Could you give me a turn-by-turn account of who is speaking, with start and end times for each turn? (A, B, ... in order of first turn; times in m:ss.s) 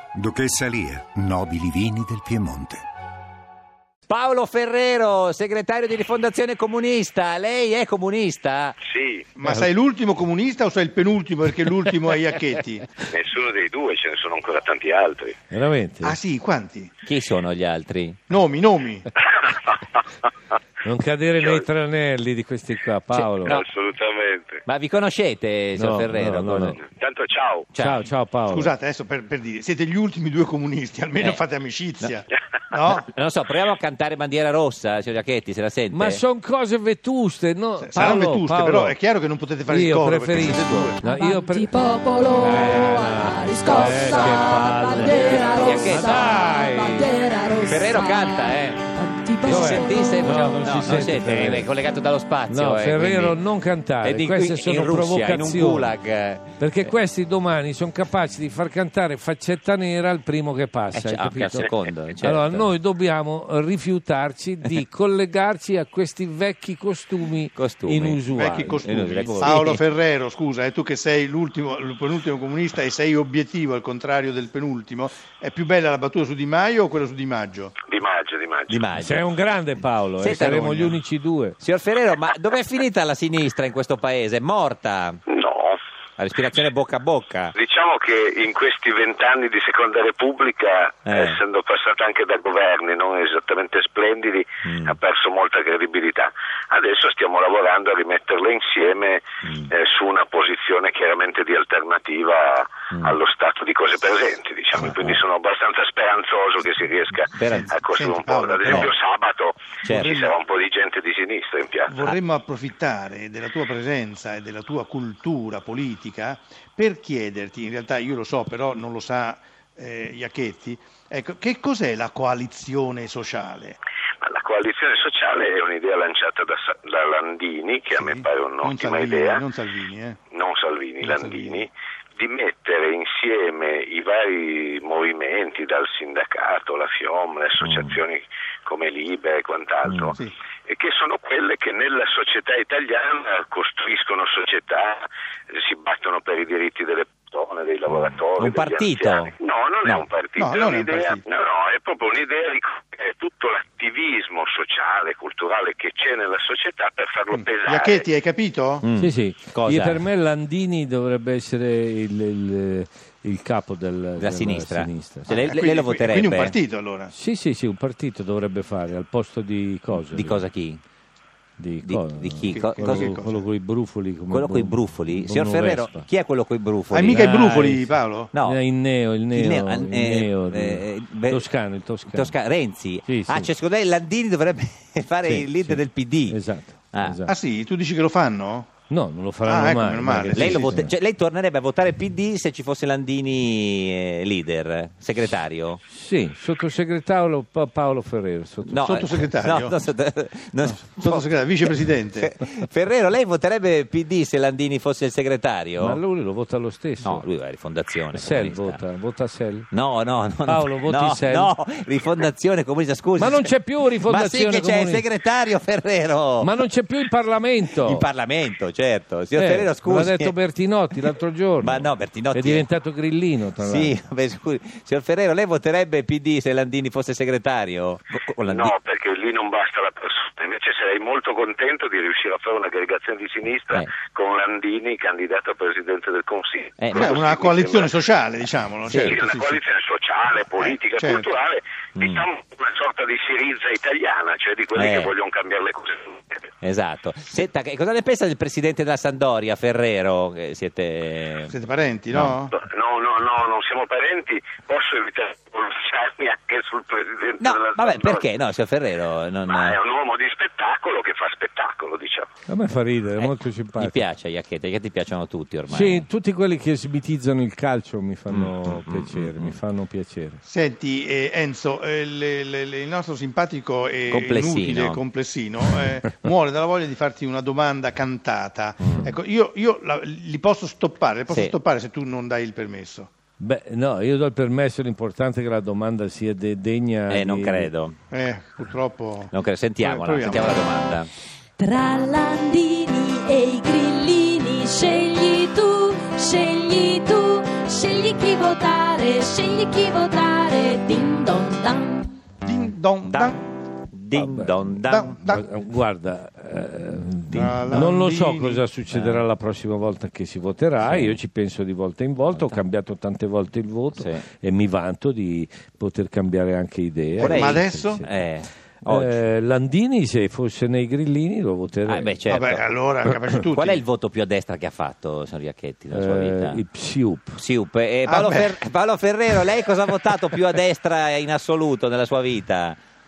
0:00.1-0:02.8 A
0:04.1-0:08.8 B
0:08.8-0:09.3 C
0:09.4-0:12.9 D
0:13.1-0:15.4 C
0:15.5-0:16.2 E
0:16.0-0:16.9 D
0:17.0-0:18.2 B
0:18.3-0:19.1 D
0:19.2-0:20.0 C
0:20.8-0:23.6 E
0:21.4-0:21.7 C
0:23.1-0:23.6 B
0:23.4-0:24.6 C
0:24.6-0:26.8 B
0:25.8-0:26.8 E
0:26.8-0:27.7 C
0:27.7-0:28.0 B
0:27.8-0:28.7 E
0:28.5-0:33.1 D
0:33.1-0:36.2 B
0:35.9-0:39.0 E
0:37.8-0:41.0 D
0:39.7-0:47.1 E
0:41.0-0:50.9 F
0:44.1-0:46.2 B
0:47.6-0:48.8 B
0:49.4-0:51.7 E
0:49.4-0:53.4 B
0:52.5-0:55.9 E
0:54.0-0:56.9 B
0:56.6-1:09.6 E
1:00.9-1:02.7 B
1:07.5-1:08.2 B
1:08.3-1:17.7 D
1:08.8-1:09.8 B
1:17.9-1:18.9 C
1:18.7-1:19.2 B
1:19.0-1:21.6 E
1:20.2-1:20.9 B
1:20.3-1:20.9 D
1:21.6-1:25.2 B
1:25.3-1:25.8 C
1:26.2-1:27.5 B
1:27.5-1:51.9 C
1:31.1-1:31.4 B
1:34.6-1:35.0 B
1:39.4-1:39.7 B
1:44.8-1:45.2 B
1:47.3-1:47.7 B
1:47.4-1:48.9 D
1:49.8-1:50.1 B
1:49.9-1:50.3 D
1:51.9-2:03.8 D
2:04.2-2:09.4 C
2:07.9-2:10.2 D
2:10.3-2:38.0 C
2:11.0-2:11.7 D
2:17.6-2:18.0 B
2:19.8-2:20.1 B
2:27.9-2:29.3 B
2:30.4-2:31.2 D
2:37.3-2:38.8 D
2:38.8-2:40.0 B
2:39.0-2:45.4 E
2:44.2-2:46.6 B
2:45.3-2:47.1 D
2:47.1-2:50.5 E
2:49.9-2:50.8 B
2:51.6-2:56.1 E
2:51.8-2:53.2 B
2:52.5-2:53.4 D
2:54.3-2:58.6 B
2:56.9-2:58.3 D
2:58.4-3:02.4 E
2:59.3-3:01.4 B
3:02.1-3:06.4 B
3:03.0-3:03.5 E
3:05.2-3:07.3 E
3:07.3-3:08.7 D
3:08.9-3:10.9 E
3:09.4-3:10.8 D
3:10.3-3:15.8 B
3:15.9-3:18.9 E
3:18.7-3:26.0 B
3:18.8-3:19.8 D
3:20.6-3:22.3 D
3:25.8-3:27.3 E
3:27.0-3:28.8 B
3:28.1-3:29.7 E
3:29.7-3:33.5 B
3:30.4-3:31.5 E
3:33.2-3:35.1 E
3:34.0-3:36.5 B
3:36.4-3:38.1 E
3:37.8-3:40.3 B
3:39.3-3:43.9 E
3:41.6-3:42.6 B
3:43.6-3:48.7 B
3:48.4-3:57.9 C
3:56.8-3:57.2 B
3:56.9-3:59.6 D
3:58.9-3:59.2 B
3:59.0-4:06.4 C
4:00.6-4:01.3 D
4:02.0-4:02.2 B
4:04.8-4:05.1 B
4:06.6-4:11.5 B
4:11.5-4:12.5 D
4:12.5-4:18.2 C
4:17.4-4:19.8 B
4:19.4-4:22.3 C
4:22.5-4:24.0 E
4:23.2-4:26.0 B
4:25.7-4:30.4 E
4:28.3-4:29.5 B
4:30.4-4:43.1 D
4:34.1-4:35.0 B
4:43.4-4:47.7 E
4:47.1-4:48.0 B
4:48.1-4:50.7 D
4:49.3-4:51.1 B
4:51.6-5:02.1 F
5:02.4-5:03.5 D
5:03.1-5:03.3 B
5:03.9-5:05.2 B
5:04.2-5:04.6 E
5:04.8-5:05.4 D
5:05.2-5:18.2 E
5:07.3-5:08.6 D
5:08.9-5:09.2 B
5:10.8-5:11.2 B
5:12.3-5:12.6 B
5:13.9-5:14.2 B
5:17.2-5:18.0 D
5:17.2-5:19.2 B
5:18.8-5:22.2 E
5:21.9-5:22.6 B
5:22.3-5:23.8 D
5:23.5-5:26.6 B
5:25.9-5:27.4 E
5:27.4-5:32.8 B
5:28.0-5:28.6 D